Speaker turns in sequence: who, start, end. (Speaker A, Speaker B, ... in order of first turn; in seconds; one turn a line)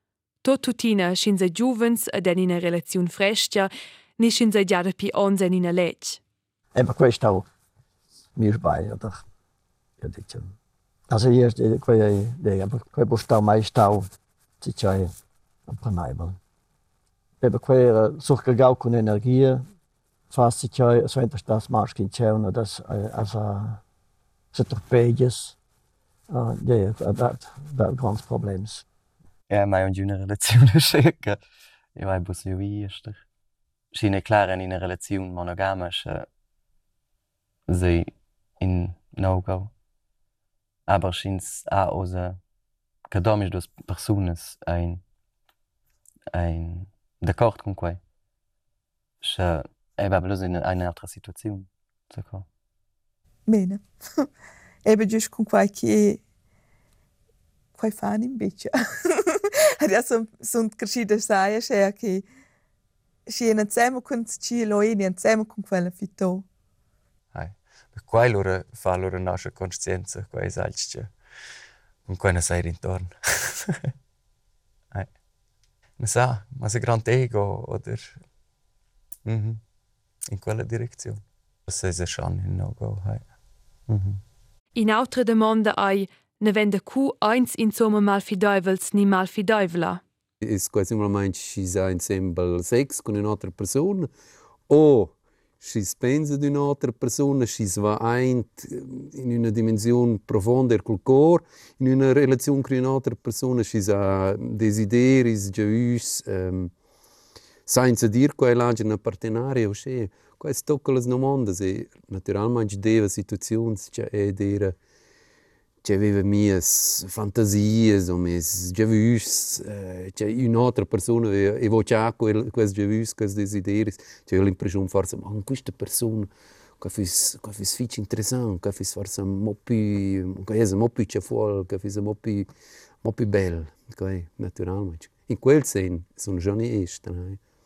Speaker A: 0.4-6.2
Speaker B: 6.7-7.5
Speaker B: 8.4-9.2
Speaker B: 10.0-10.5
Speaker B: 11.1-15.1
Speaker B: 15.7-16.4
Speaker B: 17.4-19.6
Speaker B: 20.3-23.8
Speaker B: 24.5-25.6
Speaker B: 26.3-28.9
Speaker C: 29.5-31.4
Speaker C: 32.0-33.2
Speaker C: 33.9-36.3
Speaker C: 37.7-39.7
Speaker C: 40.9-42.4
Speaker C: 43.1-45.0
Speaker C: 46.3-48.0
Speaker C: 49.2-52.5
Speaker D: 53.5-54.2
Speaker D: 54.9-56.2
Speaker D: 57.8-62.3
Speaker D: 63.3-66.5
Speaker E: 67.3-71.1
Speaker E: 72.1-73.9
Speaker E: 76.0-78.2
Speaker E: 79.2-79.6
Speaker E: 80.3-83.2
Speaker E: 83.9-84.2
Speaker A: 84.8-90.0
Speaker F: 90.4-94.1
Speaker F: 94.7-106.7
Speaker F: 107.7-114.8
Speaker F: 115.8-132.5
Speaker F: 133.0-137.4